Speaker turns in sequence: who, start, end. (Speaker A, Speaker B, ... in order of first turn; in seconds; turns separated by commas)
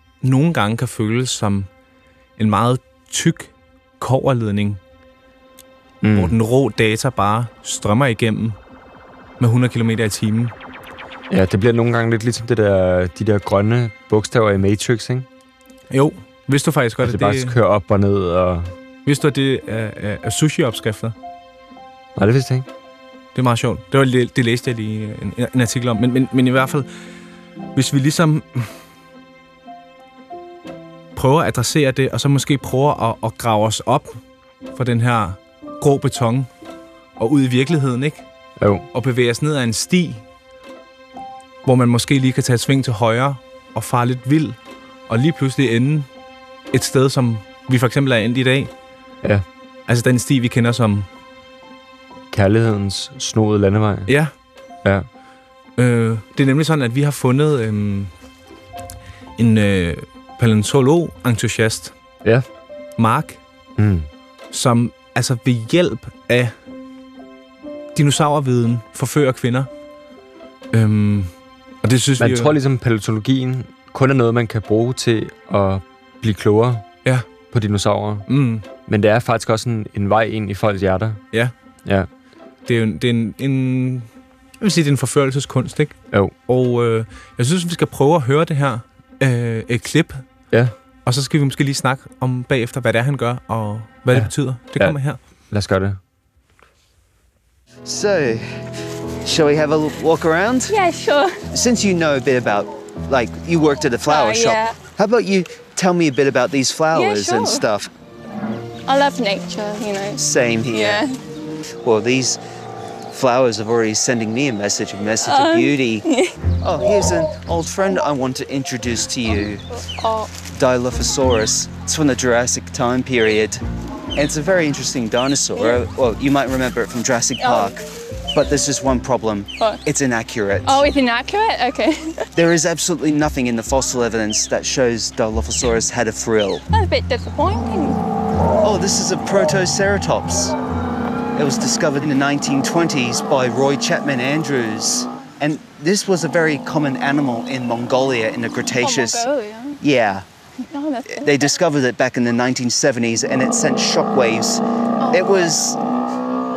Speaker A: 0.2-1.7, Speaker A: 2.4-4.8, Speaker B: 6.0-6.3, Speaker A: 6.1-8.6, Speaker A: 9.4-10.5, Speaker B: 11.3-15.3, Speaker A: 15.9-17.6, Speaker B: 17.0-18.7, Speaker A: 19.1-21.1, Speaker B: 22.2-22.7, Speaker A: 23.4-26.9, Speaker A: 27.8-28.7, Speaker A: 31.1-34.2, Speaker A: 34.8-36.5, Speaker A: 37.2-38.2, Speaker B: 38.6-38.9, Speaker A: 38.9-40.2, Speaker A: 41.6-44.6, Speaker A: 45.1-46.1, Speaker A: 46.7-48.7, Speaker A: 49.9-51.1, Speaker B: 52.3-54.1, Speaker A: 54.1-54.3, Speaker A: 55.8-58.1, Speaker A: 59.4-61.9, Speaker A: 63.0-63.4, Speaker B: 63.8-64.1, Speaker A: 64.5-66.5, Speaker A: 68.0-69.7, Speaker A: 70.7-72.5, Speaker B: 72.2-76.9, Speaker B: 77.5-78.3, Speaker A: 78.3-78.7, Speaker B: 78.9-81.2, Speaker A: 82.7-84.1, Speaker A: 84.6-86.0, Speaker A: 86.5-90.2, Speaker A: 91.0-95.2, Speaker B: 94.1-95.0, Speaker B: 95.5-96.0, Speaker C: 97.9-98.6, Speaker C: 99.2-100.7, Speaker D: 100.7-101.4, Speaker C: 101.5-107.9, Speaker D: 104.0-104.8, Speaker D: 106.9-107.7, Speaker D: 108.9-111.2, Speaker C: 110.2-111.0, Speaker C: 111.8-112.4, Speaker C: 113.1-116.0, Speaker D: 115.2-116.4, Speaker C: 116.6-119.7, Speaker D: 119.7-120.4, Speaker C: 120.5-123.6, Speaker C: 124.2-130.9, Speaker D: 125.5-125.8, Speaker D: 127.4-127.8, Speaker D: 129.6-129.8, Speaker D: 130.6-132.3, Speaker C: 132.4-136.6, Speaker D: 136.7-138.0, Speaker C: 138.6-140.6, Speaker C: 141.3-149.3, Speaker D: 148.8-149.8, Speaker C: 149.8-150.2, Speaker D: 150.6-151.6, Speaker C: 151.2-155.8, Speaker D: 155.0-155.6